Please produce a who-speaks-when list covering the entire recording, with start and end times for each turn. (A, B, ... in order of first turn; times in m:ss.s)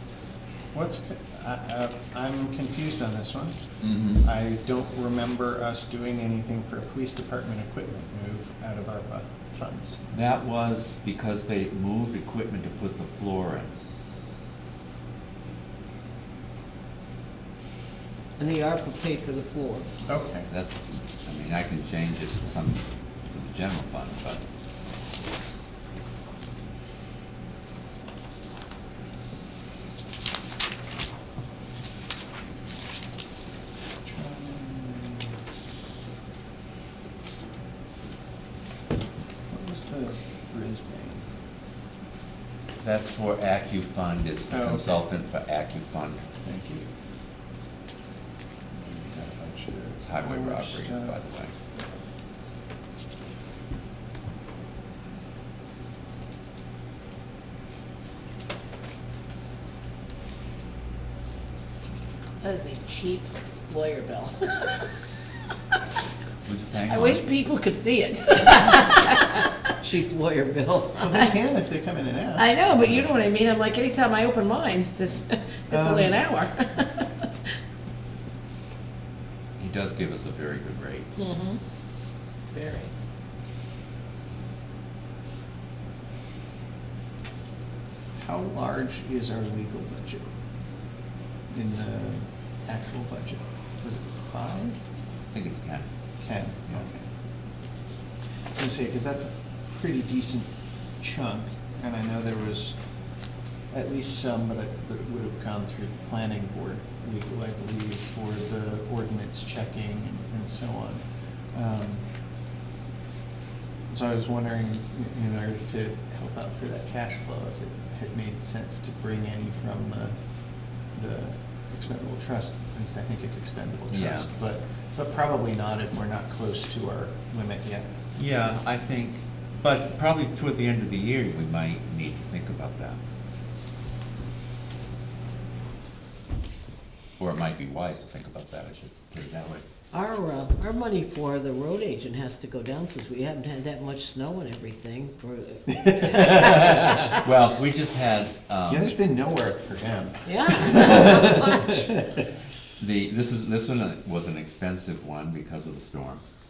0:00.7-0:10.0 A
0:03.8-0:04.2 B
0:10.1-0:13.7 B
0:18.4-0:19.9 C
0:20.1-0:20.5 A
0:20.5-0:24.4 B
0:34.0-0:35.5 A
0:39.5-0:41.3 A
0:42.8-0:46.2 B
0:44.5-0:45.0 A
0:46.4-0:46.9 A
0:48.7-0:51.8 A
0:50.0-0:51.5 B
1:02.4-1:04.9 D
1:06.4-1:07.2 B
1:06.9-1:09.2 D
1:08.6-1:09.0 C
1:09.8-1:11.2 C
1:11.0-1:12.5 A
1:12.4-1:17.3 D
1:12.8-1:13.0 B
1:15.7-1:16.2 A
1:19.6-1:21.1 B
1:21.2-1:21.6 D
1:22.5-1:22.9 D
1:28.2-1:30.3 A
1:31.5-1:34.8 A
1:35.3-1:35.9 B
1:36.2-1:37.1 A
1:38.6-1:42.8 A
1:43.7-1:52.1 A
1:53.9-2:08.0 A
2:03.9-2:04.3 B
2:08.2-2:13.0 B
2:17.2-2:19.6 B
2:19.9-2:27.2 C
2:25.7-2:26.2 A
2:26.2-2:28.9 B
2:28.7-2:32.2 A
2:30.2-2:31.8 C
2:32.8-2:36.2 B